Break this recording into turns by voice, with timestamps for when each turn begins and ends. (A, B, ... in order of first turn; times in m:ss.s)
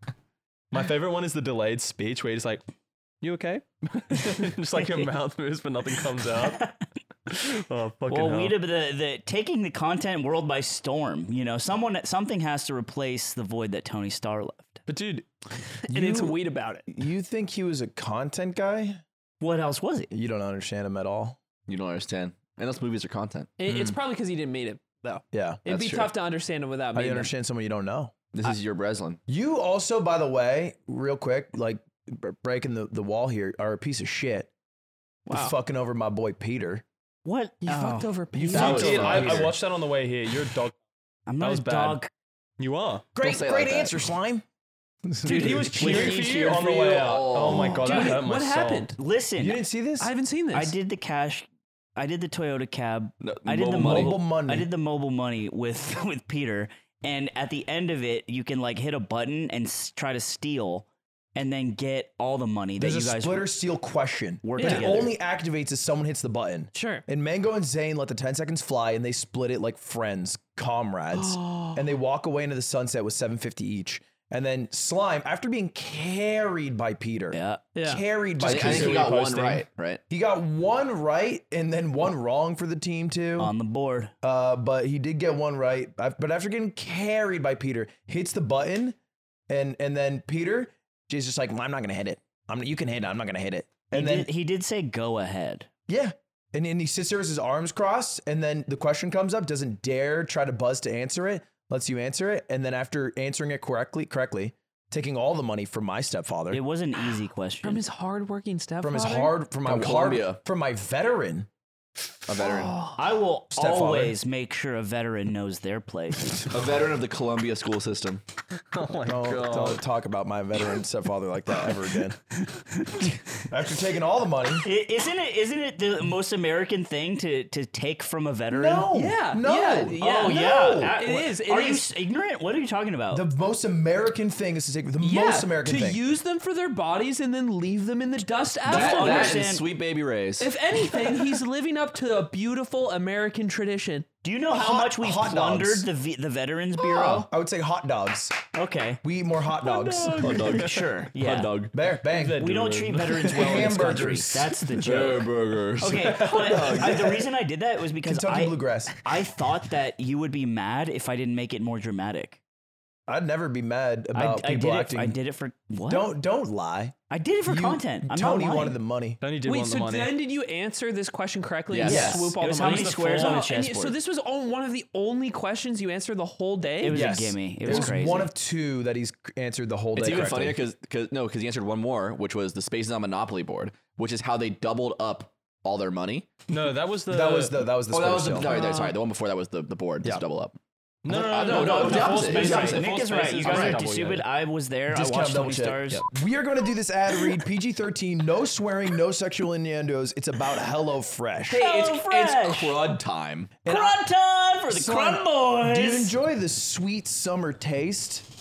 0:00.7-0:02.6 A
0:03.2-0:06.6 A
0:06.4-0:06.8 B
0:07.3-0:08.6 A
0:08.1-0:14.8 B
0:14.9-0:15.3 A
0:15.9-0:16.9 C
0:15.9-0:16.4 D
0:16.9-0:19.0 D
0:19.4-0:20.1 B
0:20.1-0:21.4 D
0:21.7-0:24.0 E
0:23.6-0:27.3 C
0:25.3-0:25.6 D
0:25.7-0:26.1 E
0:26.9-0:28.1 D
0:28.3-0:29.2 E
0:29.3-0:34.5 D
0:35.3-0:36.8 D
0:35.3-0:35.6 C
0:37.2-0:38.1 B
0:37.6-0:39.2 C
0:38.3-0:39.6 D
0:38.5-0:39.5 E
0:38.5-0:40.8 A
0:41.3-0:42.1 B
0:41.4-0:42.0 A
0:42.6-0:43.1 A
0:43.2-0:44.4 D
0:43.2-0:44.1 E
0:45.1-0:46.1 D
0:45.2-0:48.9 A
0:45.3-0:46.9 C
0:45.4-0:48.0 E
0:47.7-0:49.0 C
0:47.8-0:48.2 B
0:49.0-0:49.6 B
0:49.4-0:50.1 D
0:50.0-0:50.8 C
0:50.5-0:51.5 B
0:52.0-1:03.5 B
0:53.2-0:54.2 E
0:53.7-0:54.7 D
1:02.8-1:19.1 D
1:04.4-1:05.1 B
1:04.6-1:05.0 C
1:06.7-1:07.0 C
1:11.3-1:11.8 C
1:17.3-1:17.6 B
1:17.8-1:18.0 C
1:18.4-1:19.7 A
1:18.4-1:20.0 E
1:20.1-1:23.5 D
1:23.4-1:24.1 B
1:24.2-1:29.0 D
1:29.5-1:34.3 D
1:33.9-1:35.7 B
1:35.9-1:46.6 D
1:46.5-1:47.8 B
1:47.6-1:49.4 C
1:48.8-1:51.5 D
1:49.6-1:50.4 E
1:52.3-1:52.8 E
1:52.4-1:53.0 C
1:53.0-1:56.4 B
1:53.5-1:54.2 D
1:56.5-1:58.2 E
1:58.7-1:59.8 A
1:59.1-2:02.2 D
2:02.8-2:03.1 B
2:03.4-2:04.6 D
2:04.6-2:08.9 B
2:08.5-2:11.2 D
2:08.9-2:11.9 C
2:10.0-2:13.3 B
2:13.1-2:16.0 D
2:15.0-2:19.5 C
2:18.7-2:19.6 B
2:18.7-2:20.6 E
2:20.4-2:24.1 C
2:24.2-2:27.3 B
2:24.5-2:25.9 D
2:26.8-2:28.4 D
2:28.5-2:29.0 B
2:29.0-2:30.4 D
2:29.6-2:30.7 A
2:30.2-2:31.7 E
2:30.6-2:31.6 B
2:31.7-2:34.6 D
2:32.1-2:34.0 A
2:32.4-2:35.3 B
2:34.8-2:37.2 E
2:35.8-2:42.4 B
2:36.8-2:37.2 D
2:38.0-2:39.0 D
2:43.1-2:45.2 D
2:44.1-2:46.1 B
2:45.9-2:49.2 D
2:47.1-2:48.8 B
2:49.2-2:50.2 A
2:49.4-2:57.2 C
2:51.7-2:52.3 E
2:51.8-2:54.0 B
2:51.9-2:52.2 D
2:52.4-2:53.5 A
2:56.8-2:58.3 B
2:56.9-3:00.6 D
3:00.0-3:06.3 E
3:06.5-3:07.6 A
3:07.1-3:08.7 D
3:07.9-3:13.8 E
3:11.0-3:14.2 A
3:11.5-3:16.0 B
3:12.4-3:12.8 D
3:14.9-3:21.7 D
3:21.5-3:23.6 E
3:21.5-3:22.9 B
3:23.6-3:24.0 D
3:23.7-3:26.1 B
3:24.7-3:28.2 D